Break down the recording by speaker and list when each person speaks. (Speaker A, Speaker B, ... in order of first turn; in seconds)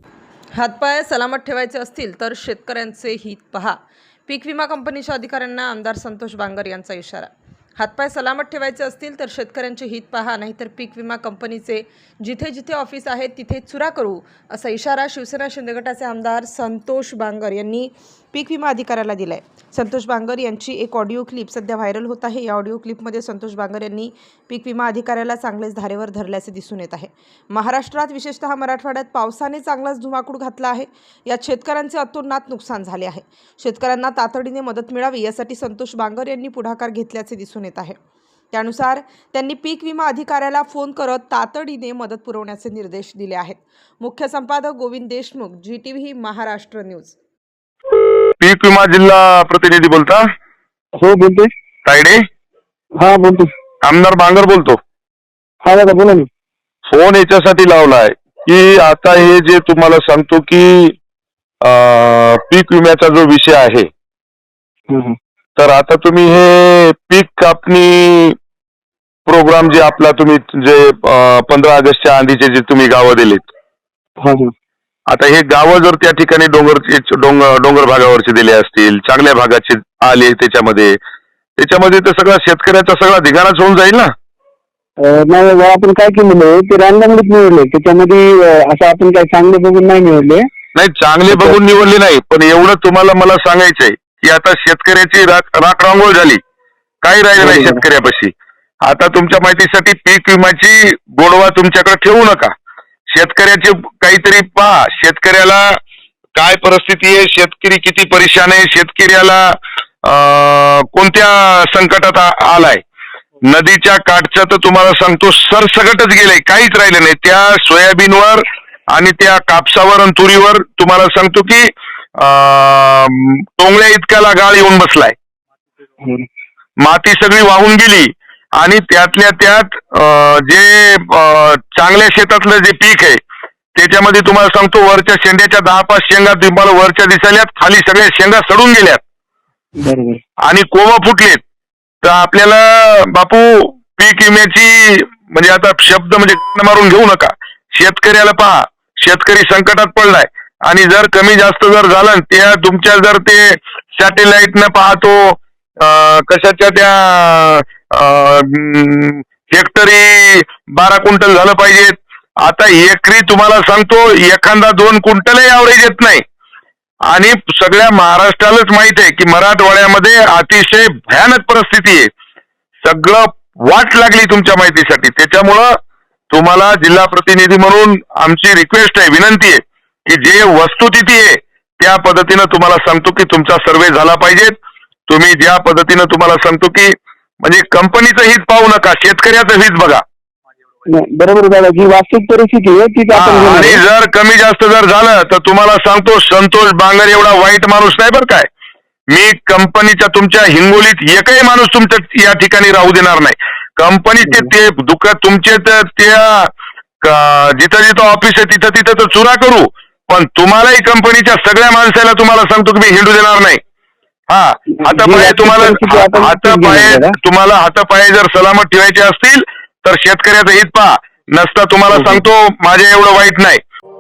Speaker A: 0.5-38.0, 38.5-47.1
Speaker B: 48.4-50.3, 51.8-52.2, 53.8-54.8, 56.9-60.9, 61.6-63.9, 65.5-68.3, 69.2-73.5, 75.1-81.0, 81.6-84.1, 90.7-96.4, 97.0-98.3, 98.8-102.5, 103.1-105.8, 106.3-112.8, 113.5-125.1, 126.8-133.2, 133.7-139.0, 140.4-141.4, 142.0-166.2, 167.1-172.1, 172.8-175.7, 176.3-184.5, 185.1-190.0, 193.1-198.5, 199.1-206.5, 207.0-213.6, 214.3-223.6
Speaker C: 51.0-51.5, 53.0-53.5, 55.6-56.3, 64.9-65.1, 74.2-74.5, 85.0-90.5, 91.3-91.6, 97.4-97.8, 139.8-140.2, 190.9-193.8, 204.2-204.5, 214.8-217.2, 221.9-222.2